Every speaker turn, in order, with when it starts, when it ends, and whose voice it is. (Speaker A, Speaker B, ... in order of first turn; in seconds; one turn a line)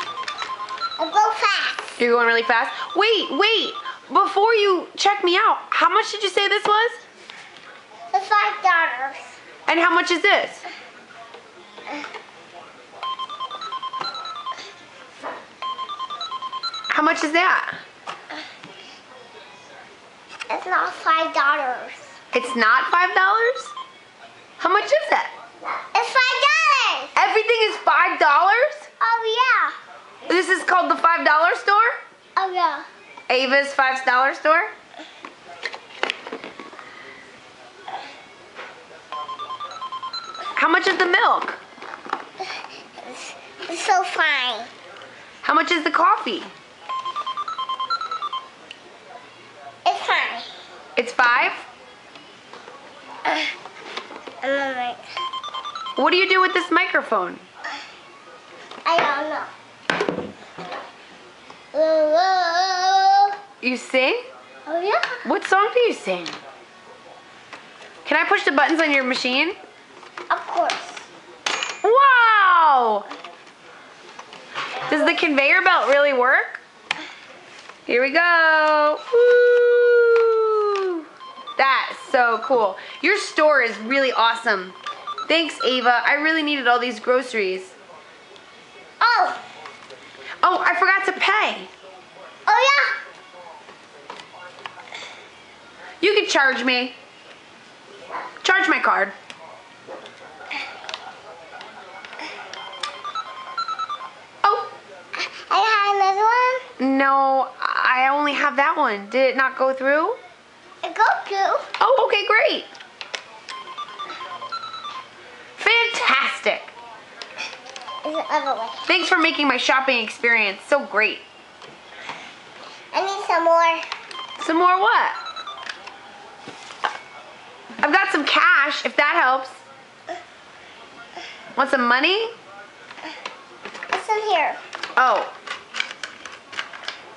Speaker A: 1.0-2.0
Speaker B: 2.0-7.0
Speaker A: 8.1-9.3
Speaker B: 9.7-10.6
Speaker B: 16.9-17.7
Speaker A: 20.5-22.1
Speaker B: 22.3-23.7
Speaker B: 24.6-25.3
Speaker A: 25.9-27.1
Speaker B: 27.1-28.9
Speaker A: 29.0-29.7
Speaker B: 30.3-32.0
Speaker A: 32.4-32.9
Speaker B: 33.3-34.7
Speaker B: 40.5-41.6
Speaker A: 43.0-44.7
Speaker B: 45.4-46.5
Speaker A: 49.8-50.5
Speaker B: 51.0-51.6
Speaker A: 54.4-55.0
Speaker B: 56.0-57.4
Speaker A: 58.8-59.5
Speaker A: 61.7-63.3
Speaker B: 63.6-64.2
Speaker A: 64.7-65.2
Speaker B: 65.2-66.4
Speaker B: 68.0-69.6
Speaker A: 70.3-71.0
Speaker B: 71.8-73.1
Speaker B: 74.9-76.6
Speaker B: 77.9-81.0
Speaker B: 81.6-87.7
Speaker A: 89.0-89.4
Speaker B: 90.4-91.7
Speaker A: 92.5-92.9
Speaker B: 96.0-96.9
Speaker B: 98.4-99.2
Speaker B: 104.4-104.7
Speaker A: 105.2-106.6
Speaker B: 106.8-110.2
Speaker A: 110.8-111.7
Speaker B: 111.8-112.7
Speaker B: 115.6-116.7
Speaker A: 118.0-118.8
Speaker B: 118.8-121.2
Speaker A: 122.9-123.8
Speaker B: 124.4-125.2
Speaker B: 127.8-129.6
Speaker B: 131.6-132.3
Speaker A: 133.9-134.6
Speaker B: 135.0-135.3